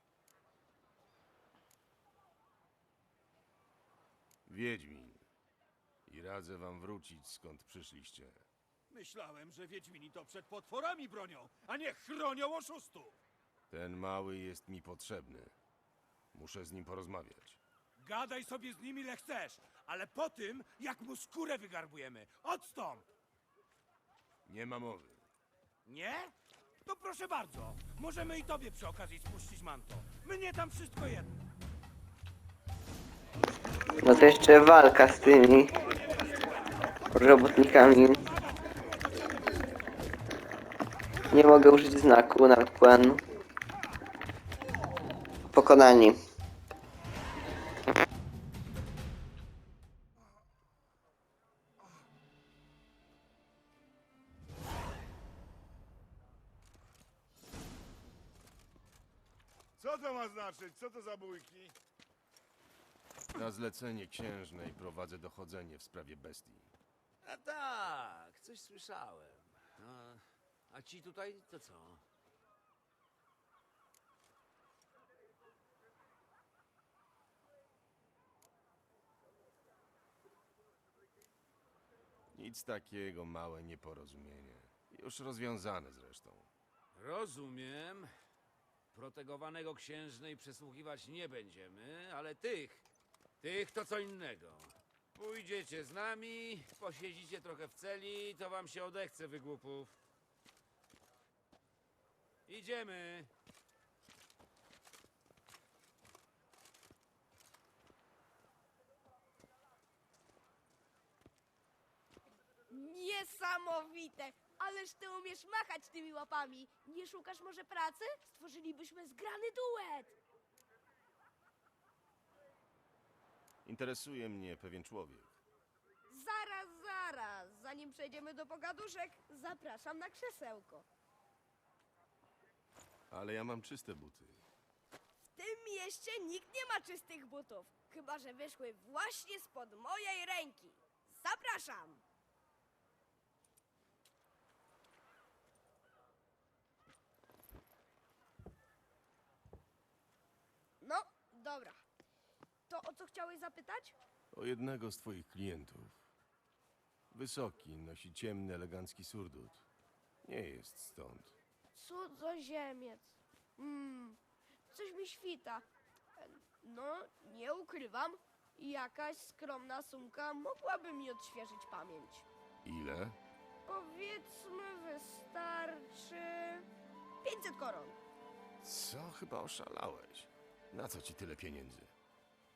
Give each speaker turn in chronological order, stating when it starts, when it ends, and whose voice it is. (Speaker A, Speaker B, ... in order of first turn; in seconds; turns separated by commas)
Speaker A: 4.5-5.2, Speaker A: 6.0-8.4, Speaker B: 8.9-13.2, Speaker A: 13.7-15.5, Speaker A: 16.3-17.6, Speaker B: 18.0-23.1, Speaker A: 24.4-25.2, Speaker B: 25.8-31.4, Speaker C: 34.0-35.8, Speaker B: 35.9-36.8, Speaker C: 37.1-38.2, Speaker B: 37.4-39.7, Speaker C: 41.3-43.2, Speaker C: 45.5-46.2, Speaker D: 59.8-61.7, Speaker A: 63.3-66.7, Speaker E: 67.2-72.0, Speaker A: 82.3-86.5, Speaker E: 86.9-88.1, Speaker E: 88.9-92.8, Speaker E: 93.4-99.9, Speaker E: 102.5-103.3, Speaker F: 112.7-120.2, Speaker A: 123.6-125.4, Speaker F: 126.1-130.8, Speaker A: 133.1-134.4, Speaker F: 135.3-142.0, Speaker F: 150.8-151.8, Speaker F: 152.7-153.9, Speaker A: 154.3-156.1, Speaker A: 157.1-159.6, Speaker A: 160.2-161.3, Speaker F: 161.7-164.2, Speaker F: 164.7-172.2, Speaker A: 172.6-173.2, Speaker F: 173.7-176.7, Speaker F: 177.2-178.0, Speaker A: 178.6-181.9